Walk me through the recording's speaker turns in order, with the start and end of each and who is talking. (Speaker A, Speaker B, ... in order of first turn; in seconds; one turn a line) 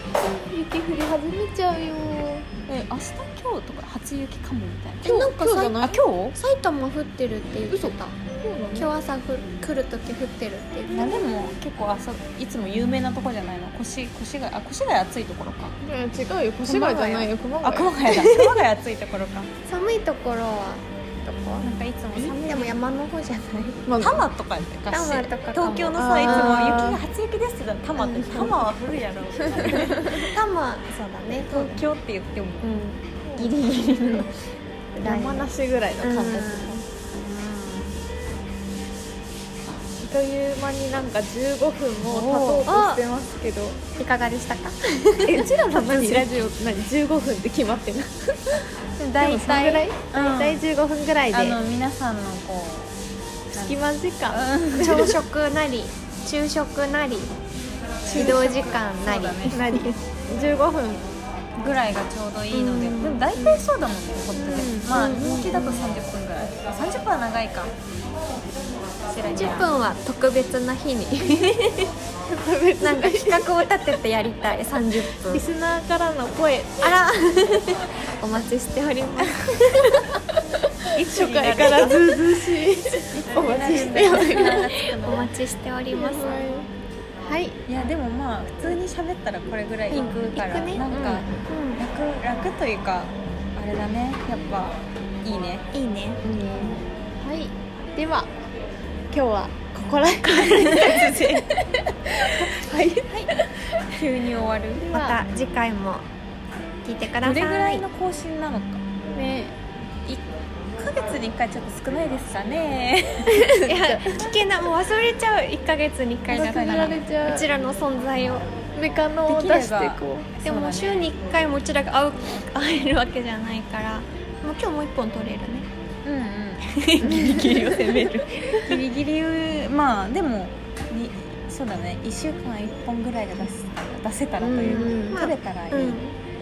Speaker A: 0.2-2.6
Speaker B: 2.7-5.1
Speaker A: 5.0-6.0
Speaker C: 5.0-5.8
Speaker B: 5.8-6.4
Speaker C: 6.3-8.1
Speaker A: 7.7-8.9
Speaker C: 8.7-11.2
Speaker B: 10.9-15.7
Speaker A: 15.8-18.4
Speaker B: 16.6-19.5
Speaker C: 19.6-23.8
Speaker B: 21.6-22.8
Speaker A: 23.9-24.2
Speaker B: 24.0-30.3
Speaker C: 24.9-26.8
Speaker A: 25.9-27.0
Speaker C: 27.9-28.6
Speaker C: 29.6-31.9
Speaker B: 31.5-33.7
Speaker C: 32.6-34.3
Speaker C: 35.0-35.5
Speaker A: 35.0-36.8
Speaker C: 36.0-36.8
Speaker B: 37.1-38.0
Speaker A: 40.0-43.8
Speaker B: 42.1-42.7
Speaker C: 42.6-43.0
Speaker C: 44.0-46.3
Speaker A: 45.2-48.6
Speaker B: 49.0-50.6
Speaker A: 49.2-51.6
Speaker B: 51.3-52.9
Speaker B: 53.5-55.1
Speaker A: 53.5-55.1
Speaker C: 54.8-57.3
Speaker B: 58.0-59.6
Speaker A: 58.1-58.5
Speaker C: 58.1-59.9
Speaker A: 59.5-61.0
Speaker B: 61.6-67.7
Speaker C: 62.5-63.6
Speaker C: 64.3-65.9
Speaker B: 69.1-69.7
Speaker C: 69.3-71.9
Speaker A: 72.3-73.6
Speaker C: 72.8-75.4
Speaker A: 75.3-76.9
Speaker C: 76.8-80.1
Speaker B: 80.9-82.2
Speaker A: 81.1-84.7
Speaker B: 83.1-85.3
Speaker C: 85.0-86.4
Speaker A: 85.9-86.7
Speaker A: 87.2-87.6
Speaker B: 87.7-95.7
Speaker C: 89.9-91.8
Speaker A: 90.9-91.2
Speaker C: 95.7-96.2
Speaker A: 96.2-98.3
Speaker A: 99.1-103.4
Speaker B: 100.4-101.5
Speaker C: 100.4-100.8
Speaker B: 103.9-104.9
Speaker A: 104.8-105.2
Speaker C: 104.9-106.0
Speaker C: 106.8-107.8
Speaker B: 107.2-108.8
Speaker A: 109.1-109.5
Speaker B: 110.8-113.5
Speaker C: 113.3-118.5
Speaker A: 113.5-114.3
Speaker A: 116.3-117.5
Speaker B: 116.3-117.0
Speaker A: 118.7-120.3
Speaker B: 119.3-121.1
Speaker C: 120.4-125.7
Speaker B: 126.0-127.8
Speaker C: 126.8-128.6
Speaker B: 128.6-136.0
Speaker C: 134.4-136.1
Speaker A: 134.6-135.2